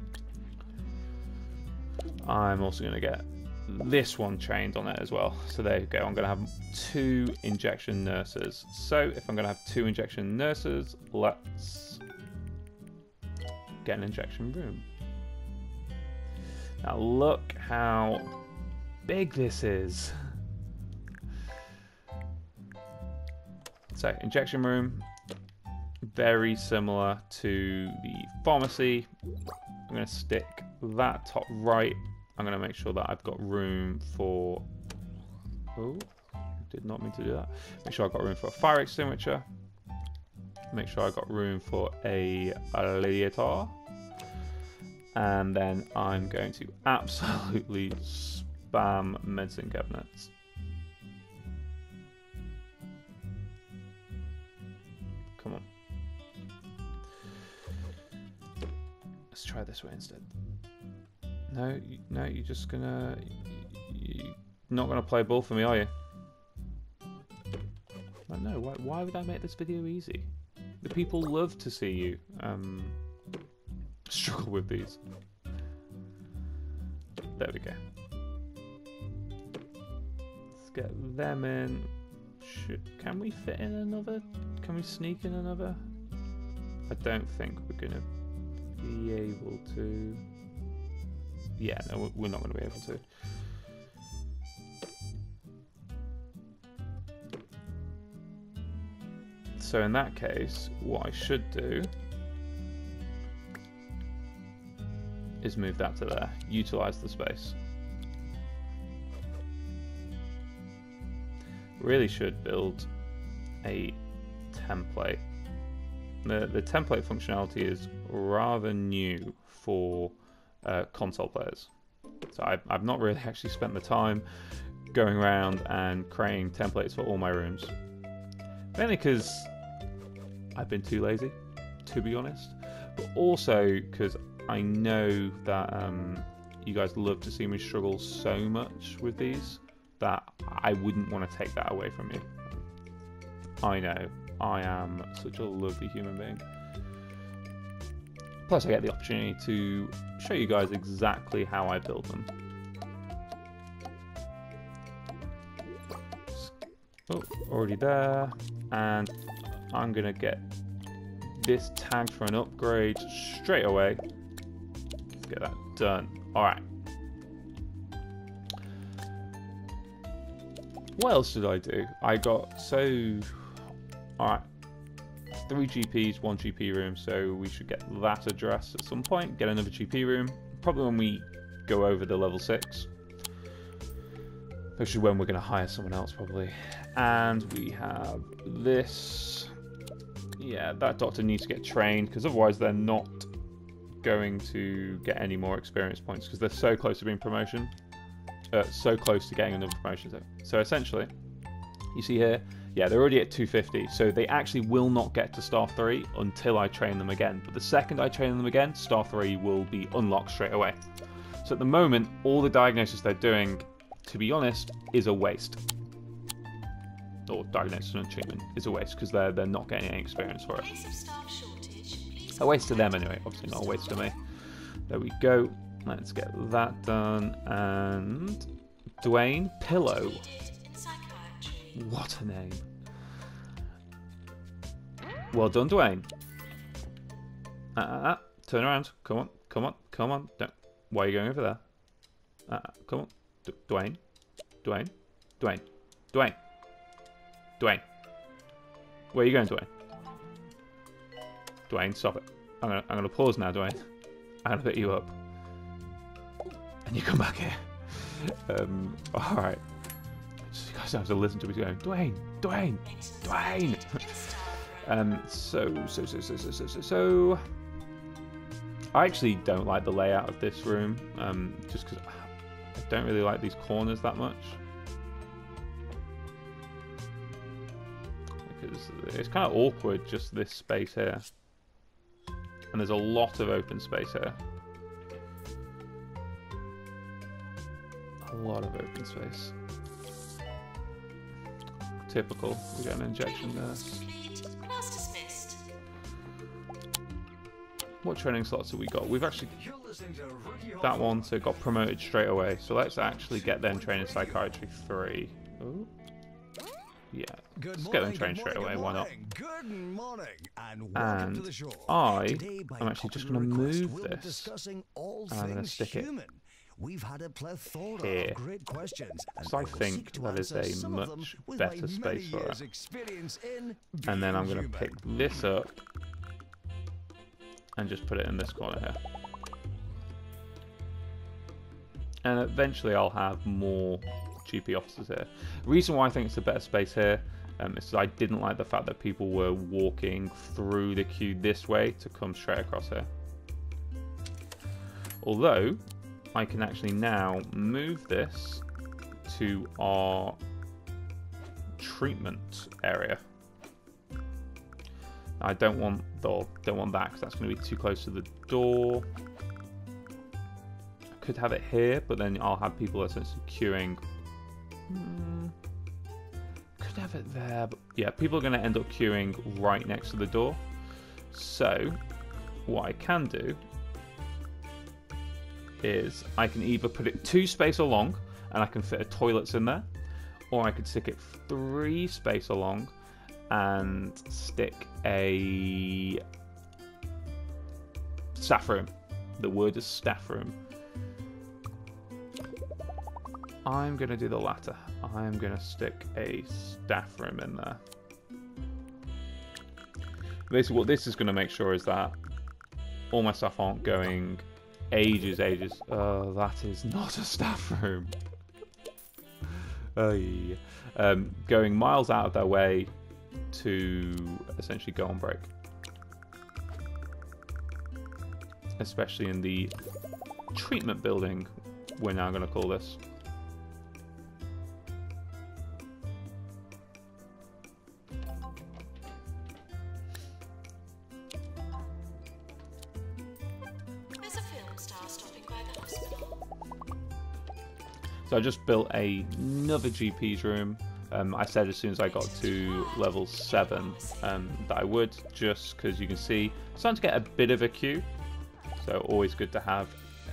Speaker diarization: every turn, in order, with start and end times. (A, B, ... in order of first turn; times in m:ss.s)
0:02.2-0:12.0 A
0:13.8-0:14.9 A
0:16.8-0:18.3 A
0:19.0-0:20.2 A
0:23.9-0:25.0 A
0:26.0-0:29.1 A
0:29.9-0:34.6 A
0:35.8-0:36.1 A
0:36.6-0:39.5 A
0:40.7-0:43.8 A
0:45.1-0:50.3 A
0:55.4-0:55.6 A
0:59.3-1:00.3 A
1:01.5-1:05.9 A
1:08.3-1:10.3 A
1:10.8-1:13.0 A
1:14.1-1:15.0 A
1:17.4-1:17.8 A
1:20.6-1:25.8 A
1:26.9-1:28.1 A
1:28.8-1:30.2 A
1:31.6-1:33.0 A
1:39.6-1:41.9 A
1:45.4-1:47.6 A
1:51.8-1:52.9 A
1:53.6-1:54.0 A
1:54.5-1:55.2 A
1:56.2-2:01.7 A
2:02.3-2:04.2 A
2:04.9-2:07.7 A
2:08.8-2:09.5 A
2:10.6-2:22.5 A
2:23.6-2:26.4 A
2:28.5-2:32.3 A
2:37.1-2:39.1 A
2:39.7-2:40.4 A
2:41.2-2:44.0 A
2:45.2-2:46.6 A
2:51.0-2:53.6 A
2:54.2-2:54.5 A
2:55.5-3:02.9 A
3:04.8-3:09.5 A
3:10.4-3:13.3 A
3:14.0-3:17.7 A
3:18.5-3:21.1 A
3:21.9-3:30.8 A
3:31.4-3:35.6 A
3:37.3-3:40.7 A
3:40.6-3:44.1 B
3:42.4-3:48.5 A
3:49.0-3:50.2 A
3:49.8-3:51.9 B
3:51.8-3:52.7 A
3:55.3-3:56.1 A
3:57.8-4:01.6 A
4:02.5-4:04.0 A
4:04.6-4:06.4 A
4:07.6-4:07.8 A
4:09.1-4:09.7 A
4:11.7-4:13.9 A
4:14.4-4:15.1 A
4:16.9-4:19.6 A
4:20.5-4:27.4 A
4:22.8-4:25.0 B
4:28.9-4:34.6 A
4:38.5-4:41.3 A
4:42.7-4:44.4 A
4:48.2-4:49.5 A
4:52.1-4:54.0 A
4:53.3-4:55.6 B
4:58.0-4:59.5 A
4:59.4-5:01.9 C
5:00.8-5:05.9 A
5:03.0-5:04.6 C
5:07.1-5:09.1 A
5:07.6-5:25.1 C
5:11.0-5:14.5 A
5:15.3-5:16.1 A
5:18.0-5:18.4 A
5:19.4-5:22.6 A
5:24.0-5:25.8 A
5:27.8-5:29.0 A
5:32.2-5:43.1 A
5:45.2-5:45.8 A
5:46.3-5:48.6 A
5:49.3-5:50.4 A
5:51.8-5:53.2 A
5:55.4-5:59.1 A
6:01.2-6:04.0 A
6:04.9-6:05.6 A
6:06.8-6:10.6 A
6:11.3-6:12.0 A
6:12.7-6:13.6 A
6:15.8-6:19.9 A
6:20.5-6:22.9 A
6:23.5-6:26.2 A
6:28.4-6:30.6 A
6:33.6-6:37.8 A
6:40.5-6:42.2 A
6:43.1-6:48.2 A
6:49.5-6:52.9 A
6:53.5-6:55.5 A
6:58.8-6:59.7 A
7:00.5-7:03.0 A
7:14.2-7:16.4 B
7:18.3-7:28.1 A
7:22.0-7:24.3 B
7:28.8-7:30.0 A